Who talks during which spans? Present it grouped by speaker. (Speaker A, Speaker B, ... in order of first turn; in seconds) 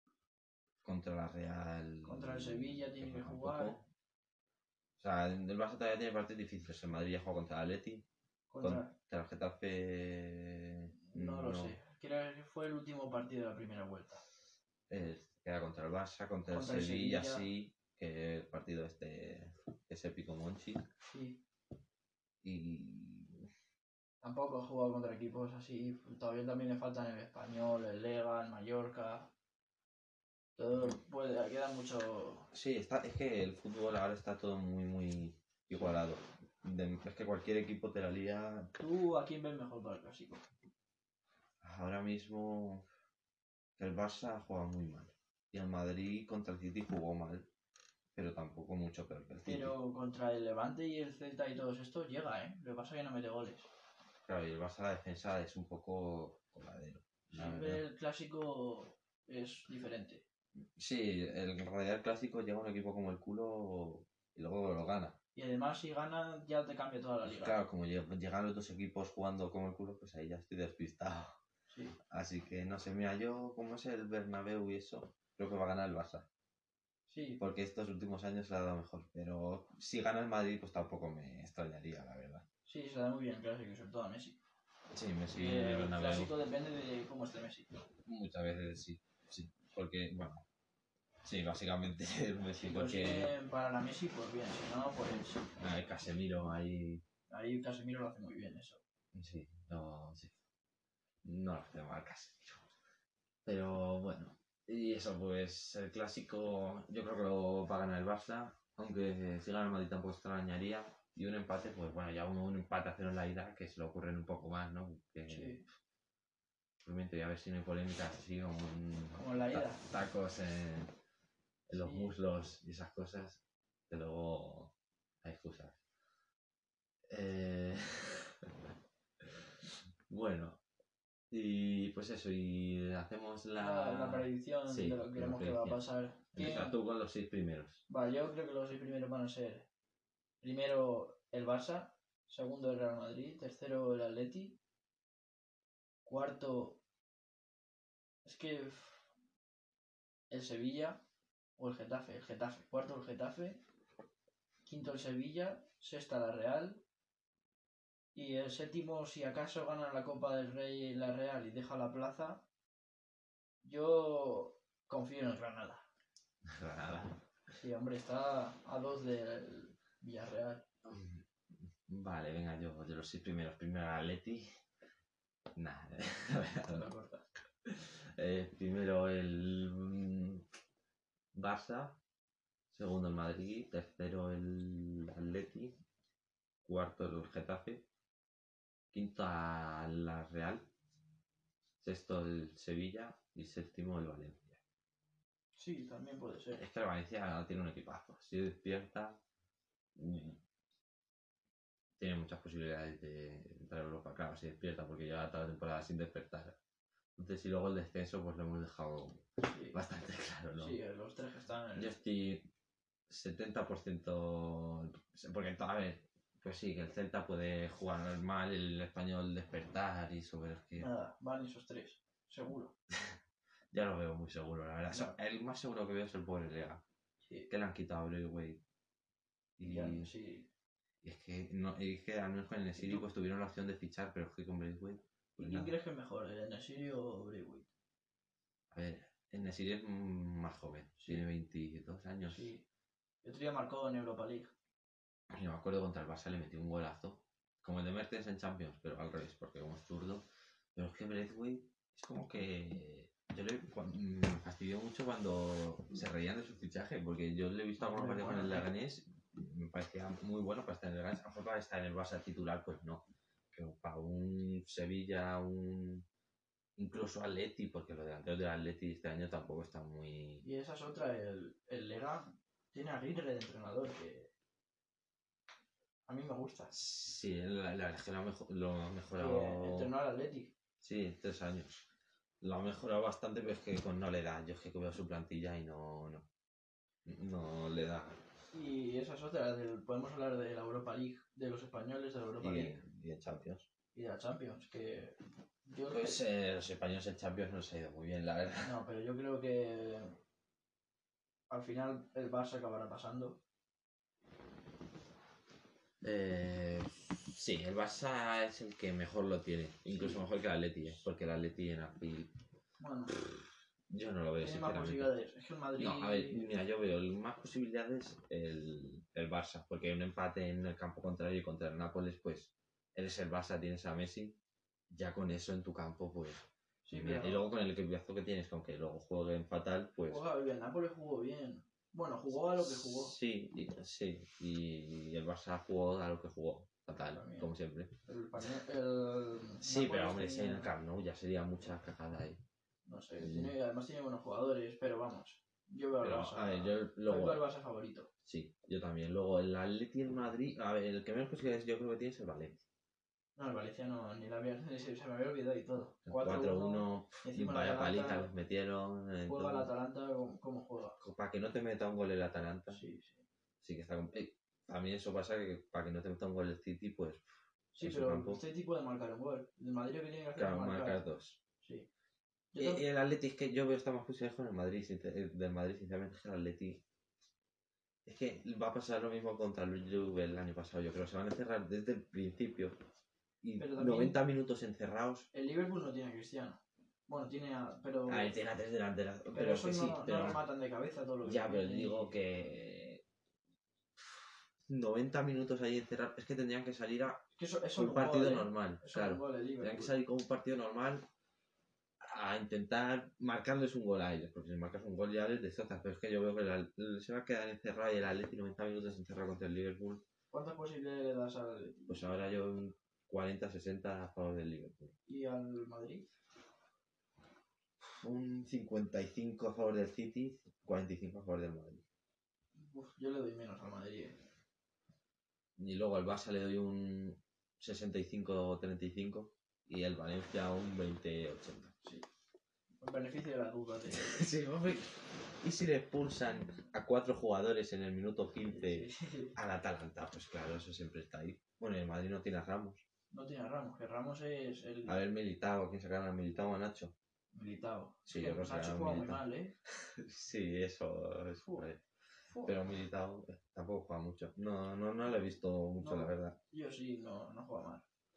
Speaker A: 0.8-3.9, 5.0-8.1, 8.6-11.8, 14.9-20.8, 22.4-23.5, 32.5-38.7, 41.6-42.9, 43.8-47.5, 48.1-49.8, 54.3-57.8, 60.8-65.2, 67.2-71.4, 72.1-76.3, 77.4-82.5, 84.9-86.3, 88.1-90.4, 91.2-93.3, 95.6-97.0, 99.1-100.4, 101.2-102.6, 103.5-115.6, 116.8-120.9, 121.7-125.8, 127.1-128.4, 130.1-130.6, 131.3-135.8, 136.3-137.8, 166.4-167.2, 170.8-174.5, 175.6-176.9, 177.7-180.5, 181.3-182.0, 182.7-185.7, 186.7-187.9, 188.9-190.7, 191.8-194.6, 196.5-199.2, 200.0-200.4, 202.0-206.6, 207.2-210.8, 211.8-212.5, 213.1-220.9, 223.7-226.8, 227.5-228.6, 229.6-230.1, 231.0-235.8, 238.7-242.5, 245.3-250.2, 250.8-266.1, 266.8-270.5, 276.7-279.9, 280.8-281.9, 282.4-286.3, 287.1-288.2, 292.4-293.7, 295.9-298.8, 306.0-312.3, 313.4-315.1, 315.8-324.4, 324.9-330.2, 332.3-337.9, 339.6-342.4, 343.2-343.6, 346.0-347.4, 348.3-352.6, 356.1-359.7, 361.0-362.8, 363.6-367.2, 367.8-368.4, 370.4-371.4, 372.6-376.8, 378.1-382.8, 383.4-385.3, 388.1-390.4, 391.2-393.0, 394.0-397.2, 397.8-401.0, 402.0-410.0, 411.9-414.9, 417.8-421.8, 425.6-431.8, 433.9-442.8, 444.9-446.9, 448.1-449.2, 450.0-451.8, 452.4-456.4
Speaker B: 2.0-3.8, 8.5-8.9, 11.0-14.2, 16.5-17.5, 21.1-21.4, 24.2-29.3, 30.6-32.5, 38.8-40.4, 49.5-53.7, 57.3-60.2, 65.3-67.6, 71.7-72.0, 77.1-77.4, 82.7-84.4, 85.3-87.7, 92.5-95.5, 97.3-98.8, 115.3-115.6, 119.2-119.9, 121.7-122.1, 133.6-136.8, 137.9-139.7, 140.4-144.6, 146.1-146.8, 148.2-149.1, 150.3-151.0, 151.6-153.6, 154.7-156.8, 158.2-162.4, 163.6-165.8, 167.6-170.6, 176.7-177.2, 195.6-196.6, 209.4-209.8, 210.6-211.9, 220.8-222.8, 224.9-225.2, 227.2-227.5, 229.6-230.5, 232.8-233.1, 235.4-237.7, 241.0-241.2, 242.3-242.7, 243.2-244.5, 257.8-258.7, 270.4-274.3, 276.1-276.7, 279.2-280.5, 288.5-292.8, 293.9-296.2, 298.6-300.2, 301.5-303.4, 309.9-310.2, 312.8-313.2, 314.4-316.5, 326.9-327.5, 330.1-333.2, 337.1-337.5, 338.1-340.7, 342.9-348.1, 353.4-358.3, 359.3-361.0, 362.7-363.2, 367.7-371.1, 371.6-371.9, 372.5-372.8, 383.6-384.2, 385.3-388.4, 389.3-392.1, 397.4-399.9, 410.3-412.1, 415.1-416.1, 422.6-424.2, 432.8-434.3, 438.4-439.4, 443.1-445.0, 447.3-449.5, 451.4-451.7, 452.3-452.6, 455.8-457.9